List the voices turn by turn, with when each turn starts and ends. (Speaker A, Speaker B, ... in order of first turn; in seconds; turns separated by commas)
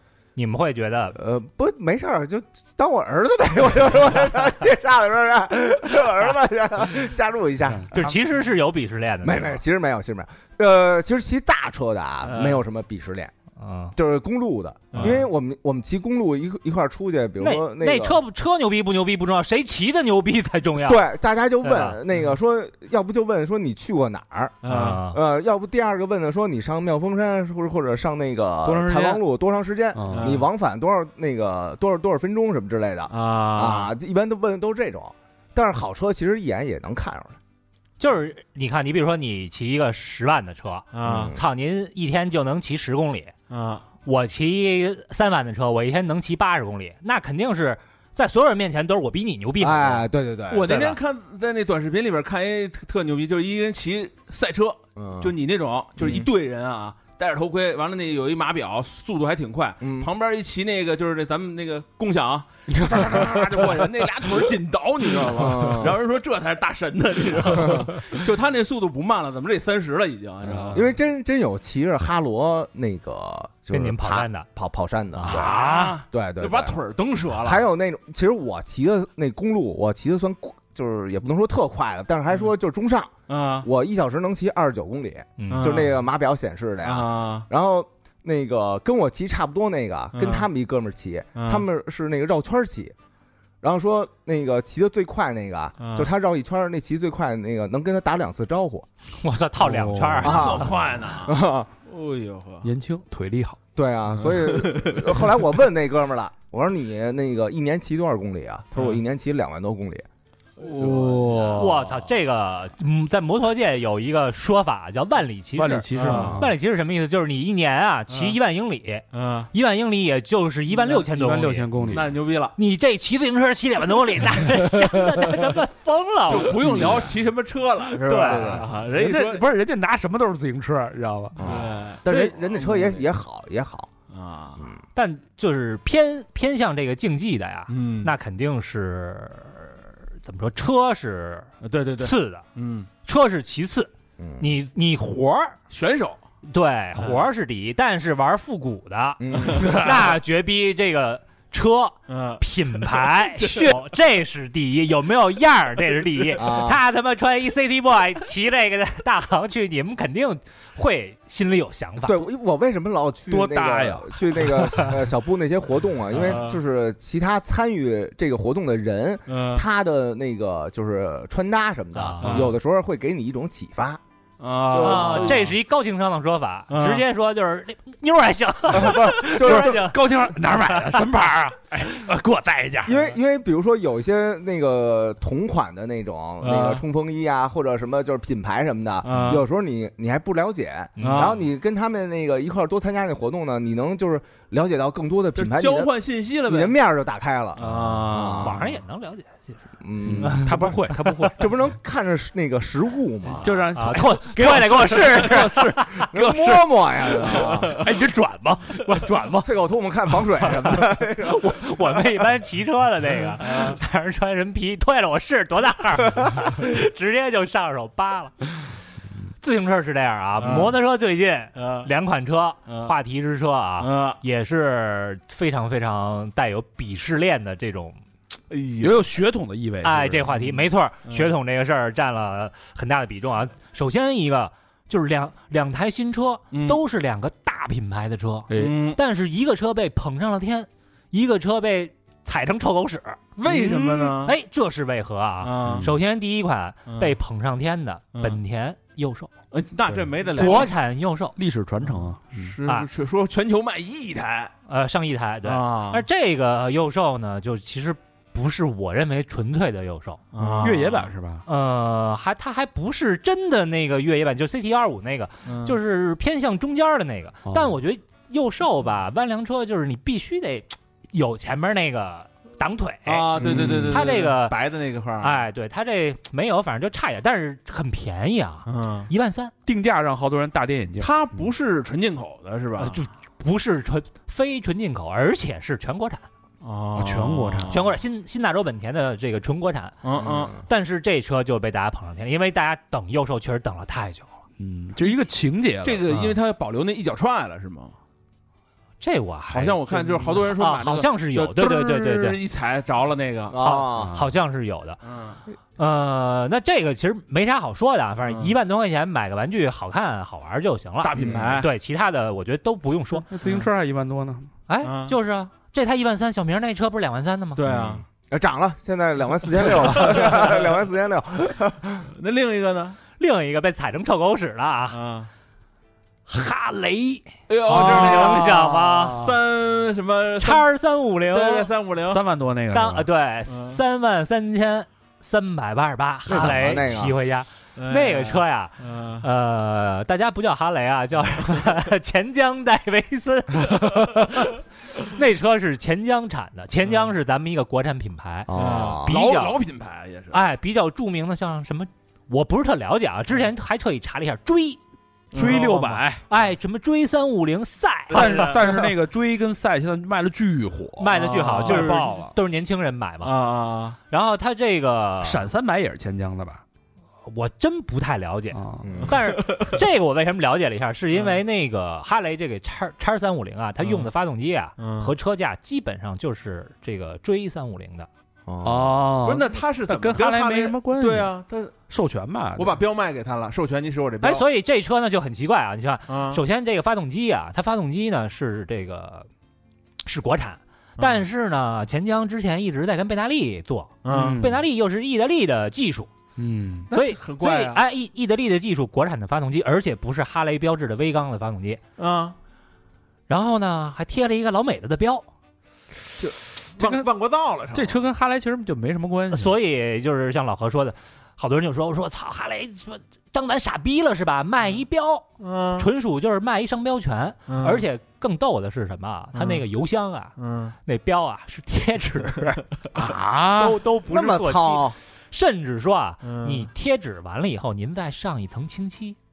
Speaker A: 0.4-1.2, Speaker B: 1.2-8.2, Speaker A: 7.9-9.6, Speaker B: 9.2-13.3, Speaker C: 12.3-12.6, Speaker A: 13.6-13.9, Speaker B: 13.9-18.2, Speaker C: 14.9-15.3, Speaker A: 15.0-15.2, Speaker A: 17.4-21.1, Speaker B: 20.9-24.6, Speaker A: 21.6-22.0, Speaker C: 24.6-25.0, Speaker A: 24.6-25.2, Speaker B: 25.1-37.4, Speaker D: 28.6-29.2, Speaker D: 29.9-30.4, Speaker C: 30.1-30.5, Speaker C: 33.1-34.0, Speaker A: 38.0-43.3, Speaker C: 40.9-41.3, Speaker B: 41.0-41.4, Speaker C: 43.5-43.9, Speaker A: 44.0-50.1, Speaker B: 49.6-51.0, Speaker C: 50.5-70.9, Speaker B: 55.0-55.3, Speaker B: 56.0-56.3, Speaker B: 59.8-60.1, Speaker B: 62.7-63.9, Speaker B: 65.3-66.0, Speaker B: 67.5-67.9, Speaker B: 70.7-75.6, Speaker A: 73.7-74.5, Speaker D: 75.2-76.0, Speaker C: 75.2-77.7, Speaker B: 76.1-76.8, Speaker B: 77.4-92.9, Speaker C: 83.3-83.7, Speaker A: 85.4-85.8, Speaker C: 85.5-86.0, Speaker C: 86.8-87.5, Speaker C: 90.1-90.5, Speaker C: 91.4-91.7, Speaker B: 93.6-98.9, Speaker C: 95.8-96.1, Speaker A: 99.2-100.7, Speaker D: 99.6-100.6, Speaker C: 100.2-102.7, Speaker B: 100.2-101.7, Speaker D: 102.6-103.6, Speaker B: 103.8-110.1, Speaker C: 104.2-105.5, Speaker C: 108.7-109.0, Speaker C: 110.6-111.8, Speaker D: 110.8-112.0, Speaker A: 111.5-121.7, Speaker D: 115.6-116.5, Speaker C: 115.9-116.3, Speaker B: 116.1-116.5, Speaker C: 118.1-118.3, Speaker C: 119.1-119.5, Speaker D: 120.8-122.1, Speaker C: 121.9-122.5, Speaker A: 122.6-126.9, Speaker D: 124.5-125.3, Speaker C: 126.3-129.5, Speaker D: 126.6-127.1, Speaker B: 126.6-127.1, Speaker A: 128.0-128.6, Speaker B: 128.2-128.7, Speaker D: 128.8-131.7, Speaker B: 131.4-133.9, Speaker C: 131.4-133.1, Speaker C: 134.1-134.7, Speaker A: 134.9-142.4, Speaker C: 137.7-138.1, Speaker C: 141.6-142.9, Speaker A: 143.1-145.6, Speaker B: 144.2-144.5, Speaker C: 145.7-146.2, Speaker A: 146.4-162.2, Speaker C: 147.0-147.3, Speaker B: 149.2-150.1, Speaker C: 149.3-150.0, Speaker C: 152.1-153.8, Speaker B: 156.4-156.8, Speaker B: 162.1-174.0, Speaker D: 163.3-165.0, Speaker C: 166.1-166.6, Speaker C: 169.3-169.7, Speaker A: 171.9-172.3, Speaker C: 172.2-172.5, Speaker D: 172.2-172.5, Speaker C: 174.4-175.5, Speaker B: 174.7-175.4, Speaker A: 174.8-181.1, Speaker C: 176.7-177.1, Speaker B: 178.7-179.8, Speaker D: 178.9-183.1, Speaker B: 182.8-195.9, Speaker C: 186.4-186.8, Speaker C: 189.0-189.4, Speaker D: 189.1-189.4, Speaker A: 191.0-191.3, Speaker C: 191.0-191.5, Speaker C: 195.3-196.8, Speaker B: 196.4-198.6, Speaker C: 197.6-198.7, Speaker D: 197.6-198.1, Speaker A: 198.4-199.6, Speaker B: 199.8-203.7, Speaker D: 200.0-201.5, Speaker A: 200.2-201.3, Speaker D: 203.4-209.5, Speaker A: 203.8-206.1, Speaker B: 206.1-207.9, Speaker B: 209.4-211.6, Speaker A: 210.4-218.7, Speaker C: 213.4-213.8, Speaker A: 219.4-228.0, Speaker C: 220.4-220.7, Speaker C: 221.6-221.9, Speaker C: 222.7-222.9, Speaker C: 223.8-224.2, Speaker C: 228.5-229.1, Speaker D: 228.8-230.3, Speaker A: 229.8-243.2, Speaker C: 230.3-231.3, Speaker C: 236.5-236.8, Speaker D: 238.5-238.8, Speaker C: 238.6-239.0, Speaker C: 243.4-244.3, Speaker D: 243.5-244.2, Speaker A: 244.2-249.3, Speaker C: 245.4-245.9, Speaker D: 245.6-245.9, Speaker C: 246.9-247.2, Speaker C: 249.5-250.7, Speaker D: 249.9-250.7, Speaker A: 250.3-251.4, Speaker D: 251.4-252.6, Speaker C: 252.3-254.5, Speaker A: 254.7-260.7, Speaker C: 255.4-256.1, Speaker C: 260.3-261.1, Speaker D: 260.4-261.4, Speaker A: 261.5-274.6, Speaker C: 265.5-265.8, Speaker D: 267.5-267.8, Speaker C: 273.1-275.4, Speaker B: 273.4-274.1, Speaker D: 273.5-273.9, Speaker A: 275.2-279.5, Speaker C: 278.7-279.1, Speaker D: 279.7-281.5, Speaker C: 281.0-283.0, Speaker A: 282.8-286.2, Speaker C: 286.6-287.9, Speaker D: 286.9-287.8, Speaker A: 287.7-289.9, Speaker C: 290.0-290.6, Speaker B: 290.2-290.6, Speaker A: 290.6-294.4, Speaker D: 294.6-296.4, Speaker C: 295.0-295.2, Speaker C: 295.8-297.9, Speaker A: 299.0-299.8, Speaker C: 299.5-303.6, Speaker D: 299.9-300.5, Speaker A: 300.5-302.4, Speaker B: 303.5-304.2, Speaker A: 303.6-305.0, Speaker D: 303.9-304.2, Speaker C: 305.0-305.4, Speaker A: 305.8-313.3, Speaker C: 308.3-308.5, Speaker C: 311.0-311.7, Speaker D: 313.2-314.5, Speaker C: 313.4-313.7, Speaker A: 314.7-317.6, Speaker C: 314.8-315.2, Speaker C: 317.6-318.0, Speaker B: 317.7-322.1, Speaker C: 319.7-320.6, Speaker C: 322.1-323.0, Speaker A: 323.2-325.0, Speaker C: 324.9-325.3, Speaker A: 326.3-329.2, Speaker C: 327.5-330.7, Speaker D: 327.7-329.4, Speaker A: 330.3-331.7, Speaker C: 331.3-332.2, Speaker D: 332.1-333.1, Speaker A: 332.7-349.6, Speaker C: 333.5-333.8, Speaker B: 336.3-337.2, Speaker C: 337.8-339.2, Speaker B: 348.5-349.2, Speaker C: 348.5-350.4, Speaker A: 350.3-354.8, Speaker C: 355.3-355.8, Speaker D: 355.4-356.2, Speaker A: 355.4-358.6, Speaker C: 358.1-358.8, Speaker D: 358.1-362.3, Speaker A: 361.0-363.3, Speaker C: 361.1-362.1, Speaker C: 363.2-364.0, Speaker A: 364.1-365.5, Speaker D: 365.2-366.6, Speaker A: 367.2-378.1, Speaker D: 368.5-369.1, Speaker B: 368.8-369.2, Speaker C: 369.2-369.8, Speaker C: 371.1-371.4, Speaker C: 373.8-374.1, Speaker C: 374.8-375.1, Speaker B: 378.5-379.0, Speaker D: 378.6-381.3, Speaker C: 379.2-381.7, Speaker D: 381.9-382.8, Speaker C: 382.6-384.4, Speaker A: 384.2-389.3, Speaker C: 386.1-386.4, Speaker A: 390.1-396.1, Speaker C: 391.0-391.2, Speaker C: 394.0-394.4, Speaker D: 394.1-394.6, Speaker D: 396.4-396.9, Speaker C: 396.9-397.8, Speaker A: 396.9-401.8, Speaker C: 402.0-402.4, Speaker A: 403.3-405.3, Speaker C: 406.2-408.0, Speaker D: 406.8-407.1, Speaker D: 407.7-409.5, Speaker A: 409.3-415.3, Speaker C: 415.4-415.9, Speaker A: 415.8-420.3, Speaker C: 417.5-417.9, Speaker C: 419.3-419.6, Speaker C: 420.4-420.8, Speaker A: 420.9-422.6, Speaker D: 422.9-423.8, Speaker A: 423.5-429.2, Speaker B: 424.1-425.0, Speaker C: 426.2-426.7